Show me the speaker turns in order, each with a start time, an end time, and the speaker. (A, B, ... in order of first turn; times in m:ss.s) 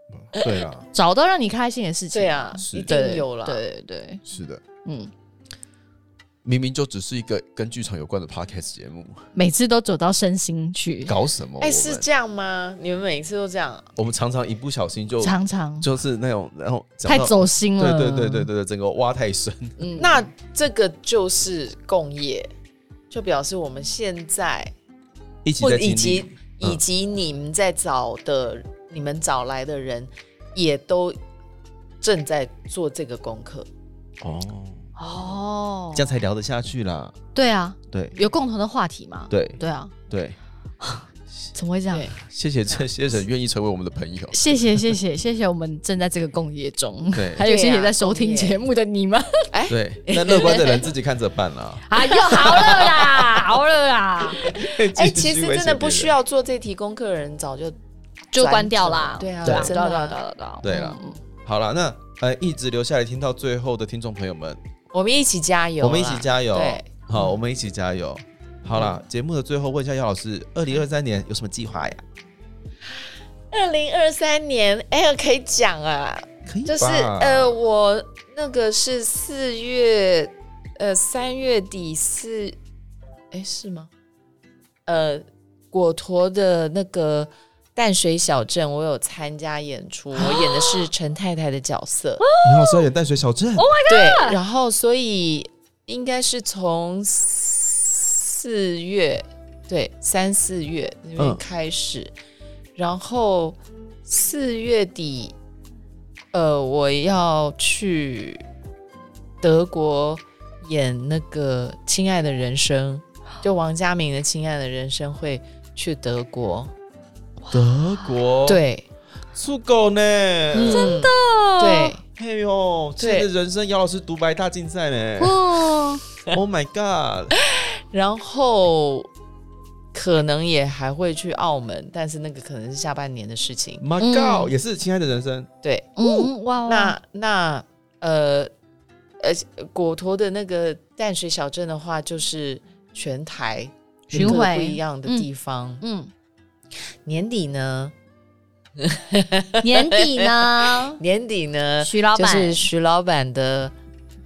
0:00.2-0:00.9 A
0:00.9-0:04.2 B
0:02.1-0:03.6 C
0:02.6-0:02.9 A
0:04.3-0:04.6 A
0:04.8-0:05.1 B
0:06.4-0:09.2 A
0:09.3-0:11.1 B
0:11.1-0:12.0 A
0:11.6-0:13.9 C
0:14.0-0:19.8 A
0:15.2-0:15.9 B
0:17.0-0:18.5 B
0:19.8-0:20.2 B
0:20.0-0:22.5 C
0:23.1-0:24.7 C
0:25.4-0:26.8 A
0:25.6-0:31.2 C
0:32.0-0:33.7 C
0:34.2-0:34.9 A
0:35.0-0:36.1 B
0:35.9-0:37.2 A
0:37.3-0:39.9 B
0:37.9-0:38.2 A
0:39.3-0:40.4 A
0:40.8-0:42.1 B
0:41.9-0:42.2 C
0:42.2-0:44.9 A
0:44.3-0:49.5 B
0:47.1-0:47.5 A
0:47.4-0:48.6 C
0:49.5-0:50.9 C
0:49.7-0:53.3 A
0:51.9-0:54.5 B
0:52.5-0:52.7 C
0:54.4-0:56.1 A
0:54.4-0:57.8 C
0:58.3-1:01.2 B
0:58.3-1:00.2 C
0:59.4-0:59.8 A
1:00.6-1:04.6 A
1:04.9-1:07.3 C
1:05.8-1:12.0 A
1:13.5-1:22.6 C
1:16.4-1:17.5 A
1:23.3-1:23.9 C
1:24.9-1:32.2 C
1:30.2-1:30.8 B
1:32.2-1:32.9 B
1:32.4-1:33.7 A
1:33.6-1:34.4 B
1:33.8-1:42.1 C
1:42.8-1:45.3 C
1:46.3-1:48.4 C
1:49.4-1:56.7 C
1:57.4-1:58.1 B
1:57.5-1:58.6 A
1:58.4-1:58.8 C
1:59.3-2:01.0 A
2:00.5-2:02.0 C
2:00.7-2:01.9 B
2:02.1-2:05.4 A
2:03.0-2:03.3 C
2:05.2-2:06.0 B
2:06.3-2:07.3 A
2:07.5-2:09.1 C
2:09.9-2:13.8 C
2:13.8-2:15.5 A
2:14.0-2:14.5 B
2:15.6-2:18.5 C
2:16.0-2:16.9 B
2:19.2-2:25.8 C
2:24.1-2:25.3 B
2:24.1-2:24.4 A
2:25.8-2:26.1 B
2:27.0-2:27.9 C
2:28.8-2:33.7 C
2:29.6-2:31.0 B
2:31.8-2:32.6 B